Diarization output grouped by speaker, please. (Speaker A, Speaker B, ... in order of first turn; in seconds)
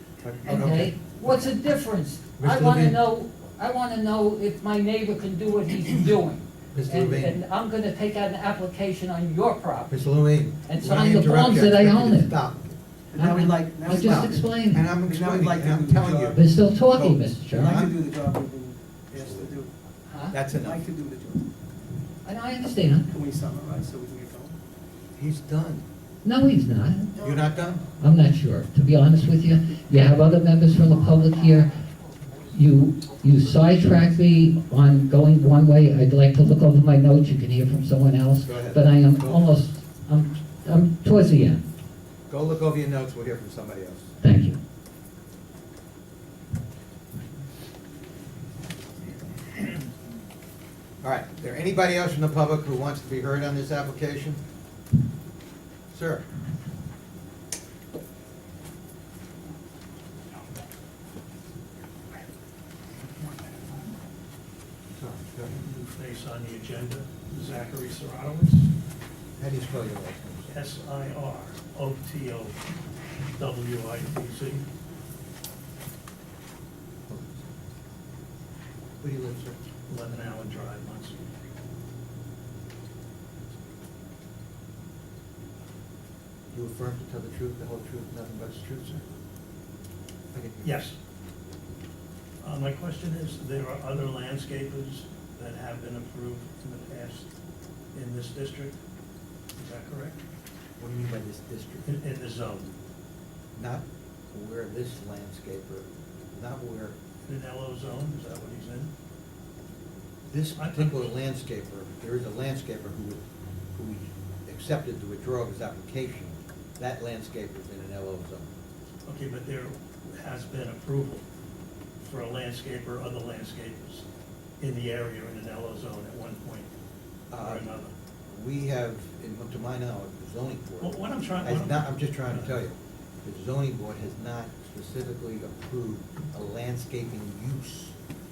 Speaker A: 0.2-1.5, 2.4-3.0, 6.7-7.4, 9.9-12.8, 13.8-18.0, 19.1-19.6, 20.3-20.8, 25.1-25.8, 27.1-27.8, 38.4-39.5, 42.3-44.1, 51.0-54.4, 55.9-56.2, 64.9-65.6, 69.4-70.5, 77.1-77.5, 79.0-79.6, 86.5-89.0, 90.3-90.8, 100.8-101.9, 103.5-107.0, 110.2-118.5, 127.3-127.7, 128.3-138.0
Speaker B: 0.4-10.0, 10.6-12.3, 13.2-14.9, 16.3-17.9, 20.1-20.4, 22.2-23.1, 26.2-27.2, 28.0-31.7, 32.5-41.6, 44.2-44.6
Speaker C: 13.1-14.5, 15.1-16.4, 17.5-19.7, 20.6-21.5, 23.1-24.6
Speaker D: 65.5-68.7, 70.5-72.6, 73.3-74.7, 79.9-81.3, 90.6-91.0, 92.4-97.3, 97.9-98.8, 99.5-100.2, 101.8-102.8, 107.2-108.9, 110.5-111.1, 119.0-121.2, 122.0-124.1, 124.6-126.7, 127.4-127.9, 130.8-132.5